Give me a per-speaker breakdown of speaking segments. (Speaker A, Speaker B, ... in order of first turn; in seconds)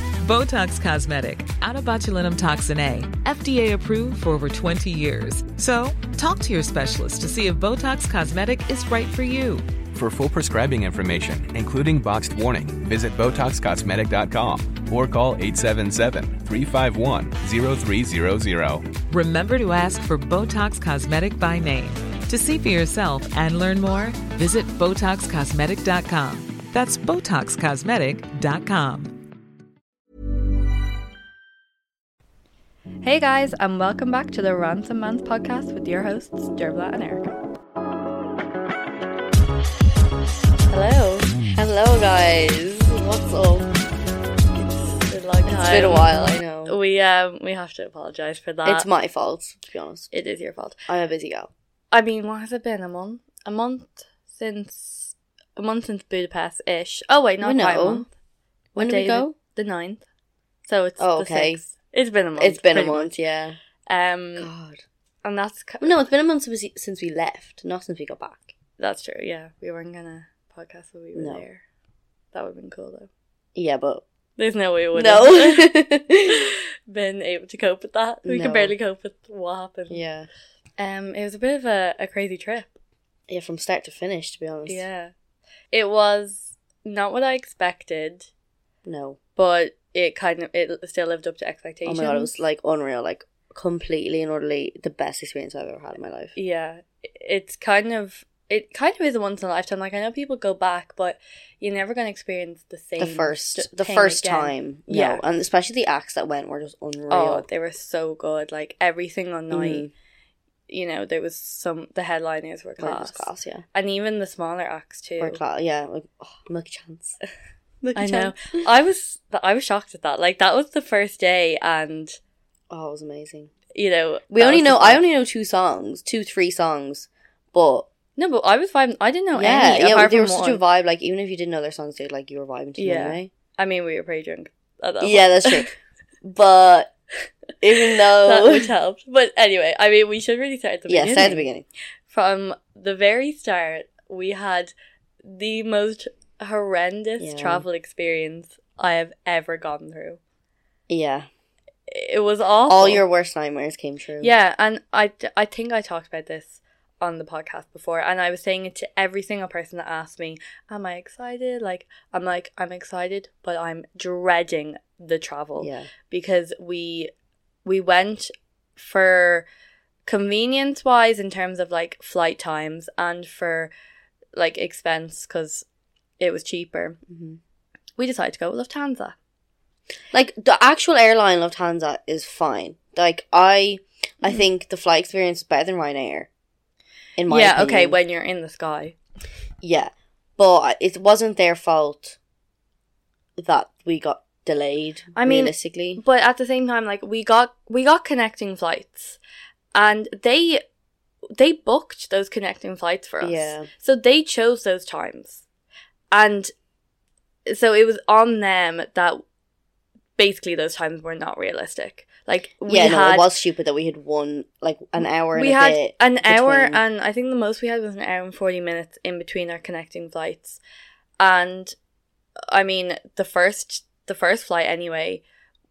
Speaker A: 0.2-9.7, 19.0-29.1
Speaker B: 9.9-19.0
Speaker C: 33.0-37.3, 40.7-41.3, 44.9-48.9, 50.1-50.8, 51.9-58.1, 58.8-60.0, 60.6-63.1, 63.9-64.5, 65.2-66.0, 68.8-71.6, 72.3-73.1, 74.4-75.7, 76.3-80.0, 80.8-82.7, 84.7-85.1, 85.7-88.3, 89.4-92.3, 96.4-105.2, 107.1-109.9, 110.7-115.4, 118.0-122.2, 123.7-125.0, 128.2-130.6, 132.8-135.7, 137.9-141.5, 142.1-150.2, 151.9-153.0, 154.2-167.1, 167.7-169.5, 170.1-173.7, 174.3-175.7, 176.2-177.0, 178.0-179.2, 187.3-189.0, 195.1-199.2, 199.7-200.6, 201.3-205.4, 206.1-206.5, 207.5-209.2, 210.2-213.3, 215.3-220.6, 221.2-221.8, 222.5-225.2
Speaker D: 41.5-43.7, 45.4-46.8, 48.6-50.1, 50.9-51.5, 57.4-58.1, 58.8-59.4, 61.0-61.6, 62.4-63.6, 64.4-64.8, 65.8-68.5, 71.2-71.4, 73.6-74.0, 74.9-76.5, 78.2-78.7, 79.9-80.3, 83.3-84.8, 88.8-89.2, 91.9-96.3, 103.0-107.5, 109.5-109.9, 112.8-113.7, 115.2-117.2, 117.8-118.6, 122.7-123.5, 124.3-127.9, 129.3-133.3, 135.0-136.9, 137.6-138.7, 140.9-141.6, 147.2-147.7, 150.9-151.3, 152.7-154.3, 165.6-165.9, 177.1-177.4, 180.1-186.3, 187.2-188.0, 189.6-192.2, 193.4-196.0, 203.2-203.7, 212.6-216.8